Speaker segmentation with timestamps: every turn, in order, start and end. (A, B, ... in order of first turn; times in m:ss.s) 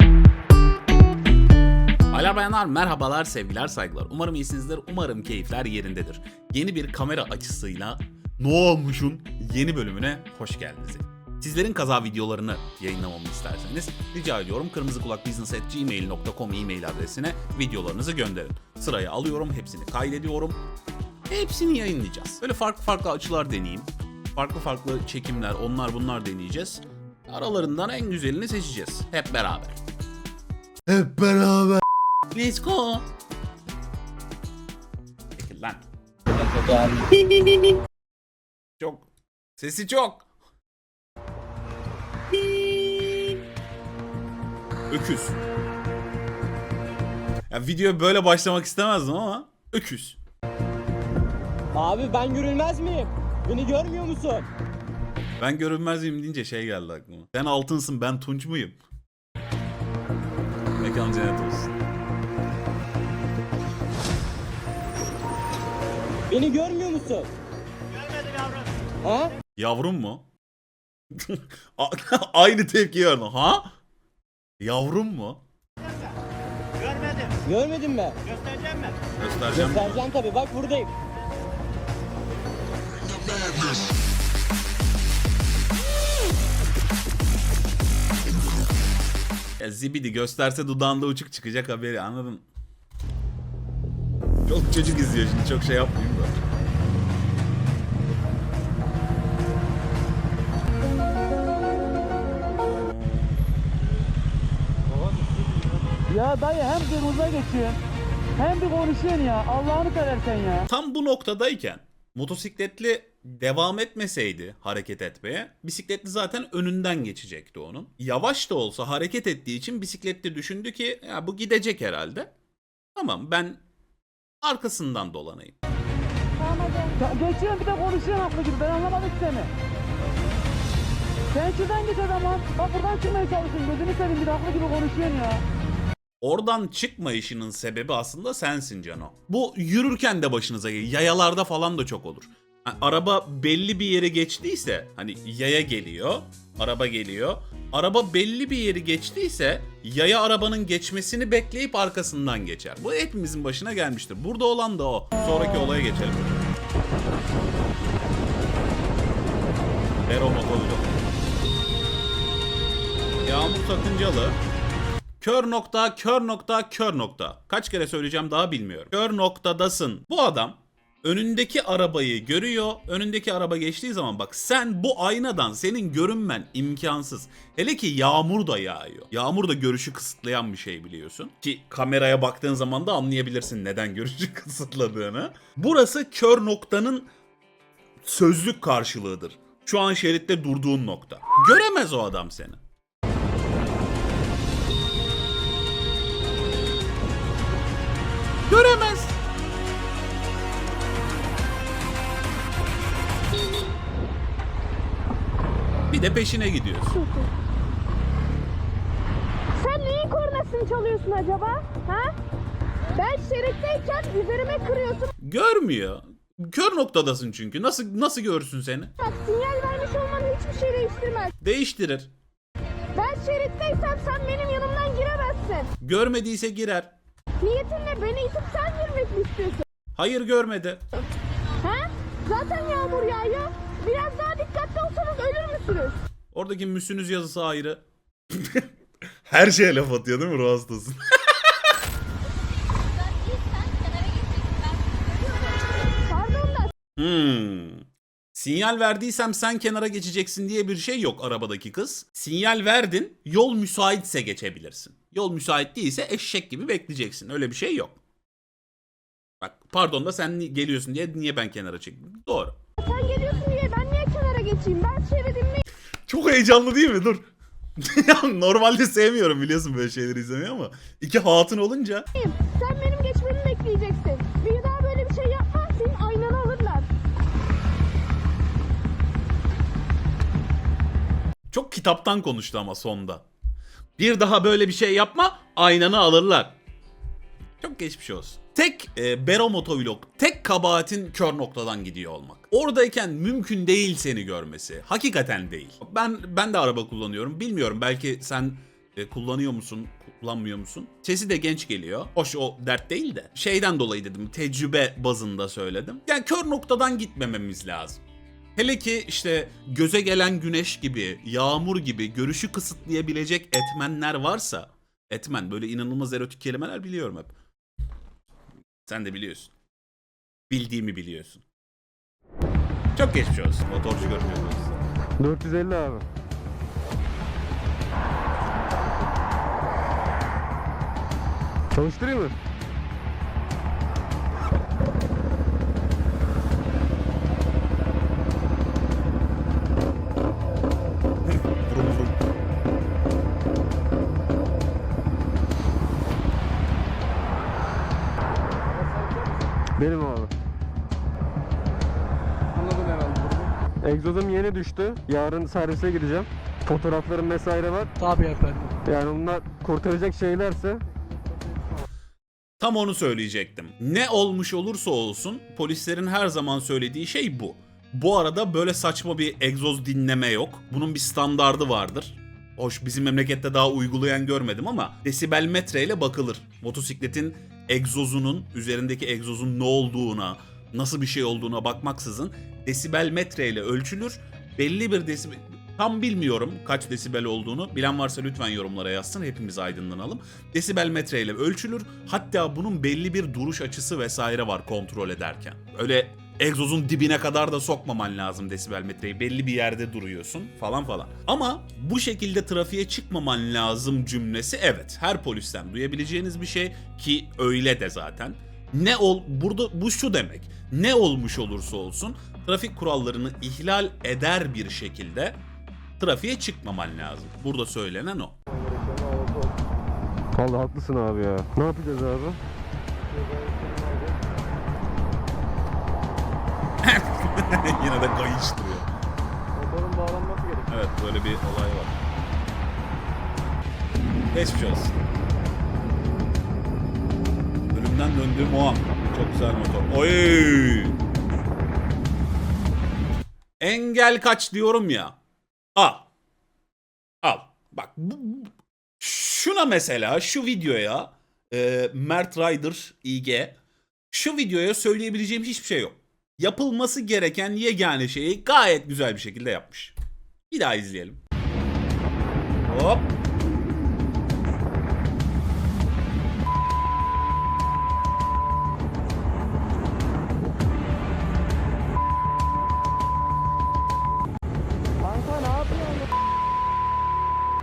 0:02.1-0:20.6 A
0:21.3-0:29.8 A
0:30.9-0:33.1 A
0:35.4-0:37.6 A
0:38.8-0:40.3 A
0:42.6-0:43.1 B
0:44.9-0:45.4 A
0:47.5-0:50.2 A
0:51.7-0:54.5 B
0:55.4-0:58.8 A
1:00.8-1:01.7 A
1:06.3-1:07.3 B
1:09.0-1:09.3 B
1:09.6-1:10.3 A
1:11.1-1:13.7 A
1:14.6-1:15.4 A
1:17.1-1:19.0 B
1:19.2-1:20.1 A
1:19.5-1:20.9 B
1:29.6-1:32.4 A
1:34.5-1:36.4 A
1:42.7-1:43.2 A
1:46.1-1:47.8 C
1:48.4-1:50.7 C
1:50.7-2:02.3 A
2:03.0-2:03.6 A
2:04.4-2:05.6 A
2:06.9-2:09.5 C
2:11.3-2:15.4 C
2:16.2-2:36.4 A
2:40.1-2:40.9 A
2:43.2-2:44.4 A
2:45.2-3:07.1 A
3:08.0-3:12.6 A
3:18.5-3:19.2 A
3:25.9-3:27.0 A
3:29.6-3:32.2 D
3:33.0-3:35.1 D
3:35.2-3:38.9 A
3:39.0-3:41.3 D
3:41.4-3:42.1 A
3:43.0-3:45.7 D
3:45.8-3:46.9 A
3:47.4-3:49.6 D
3:50.0-3:50.8 A
3:51.6-3:56.0 D
3:56.3-3:58.7 A
3:59.3-4:01.0 A
4:06.1-4:06.7 D
4:07.0-4:18.0 A
4:19.4-4:22.6 A
4:22.8-4:25.6 D
4:26.1-4:27.2 A
4:27.8-4:32.1 A
4:32.2-4:36.9 D
4:41.5-4:43.3 A
4:44.0-4:46.6 A
4:47.6-5:08.0 A
5:08.6-5:17.4 A
5:18.9-5:19.5 A
5:20.5-5:21.4 A
5:23.0-5:24.7 A
5:25.2-5:26.1 E
5:31.7-5:32.4 E
5:41.4-5:42.2 A
5:49.8-5:50.3 E
5:53.8-5:58.0 E
5:58.8-6:00.8 E
6:02.6-6:55.4 A
6:56.0-6:58.4 A
7:00.4-7:02.4 E
7:06.8-7:08.9 A
7:10.7-7:12.0 A
7:14.3-7:15.0 A
7:17.7-7:21.0 A
7:23.6-7:25.2 A
7:25.8-7:26.1 A
7:27.2-7:33.6 A
7:34.1-7:40.0 A
7:40.5-7:41.2 A
7:42.7-7:43.1 A
7:55.1-7:56.0 E